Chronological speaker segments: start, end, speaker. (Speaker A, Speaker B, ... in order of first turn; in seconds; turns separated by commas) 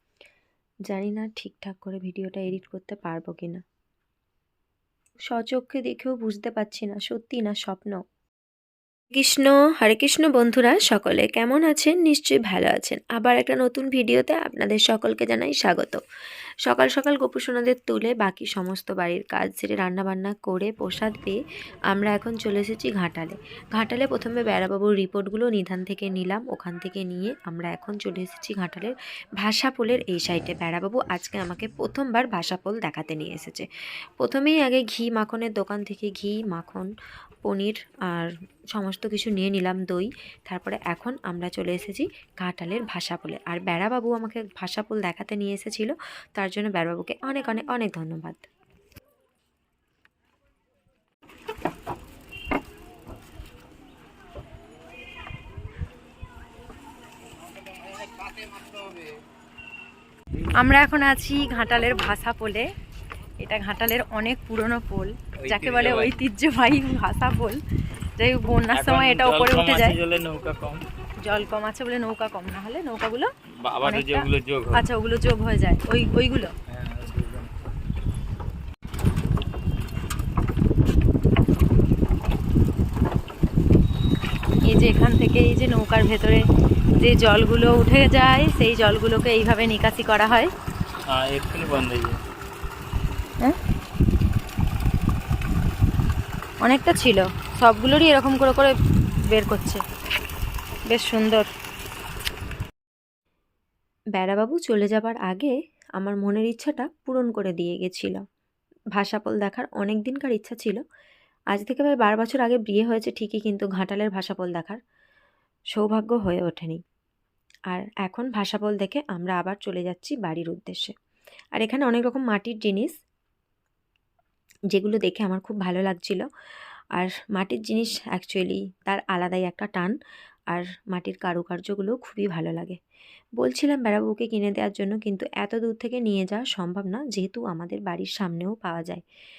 Speaker A: 0.9-3.6, Speaker A: 5.3-8.0, Speaker A: 9.1-16.0, Speaker A: 16.6-21.4, Speaker A: 21.9-33.7, Speaker A: 34.2-36.9, Speaker A: 37.4-48.4, Speaker A: 60.6-62.6, Speaker A: 63.4-67.6, Speaker B: 65.4-66.2, Speaker A: 68.2-70.0, Speaker B: 68.7-70.8, Speaker A: 71.2-73.3, Speaker B: 73.6-74.8, Speaker A: 73.8-76.5, Speaker B: 76.7-77.5, Speaker A: 84.7-86.4, Speaker A: 87.0-90.5, Speaker B: 91.1-92.2, Speaker A: 96.6-98.7, Speaker A: 99.3-99.8, Speaker A: 100.9-101.4, Speaker A: 104.2-108.2, Speaker A: 109.0-110.8, Speaker A: 111.5-114.8, Speaker A: 115.7-116.8, Speaker A: 117.7-120.9, Speaker A: 121.5-122.9, Speaker A: 124.7-126.2, Speaker A: 126.9-129.9, Speaker A: 130.5-132.8, Speaker A: 133.4-139.0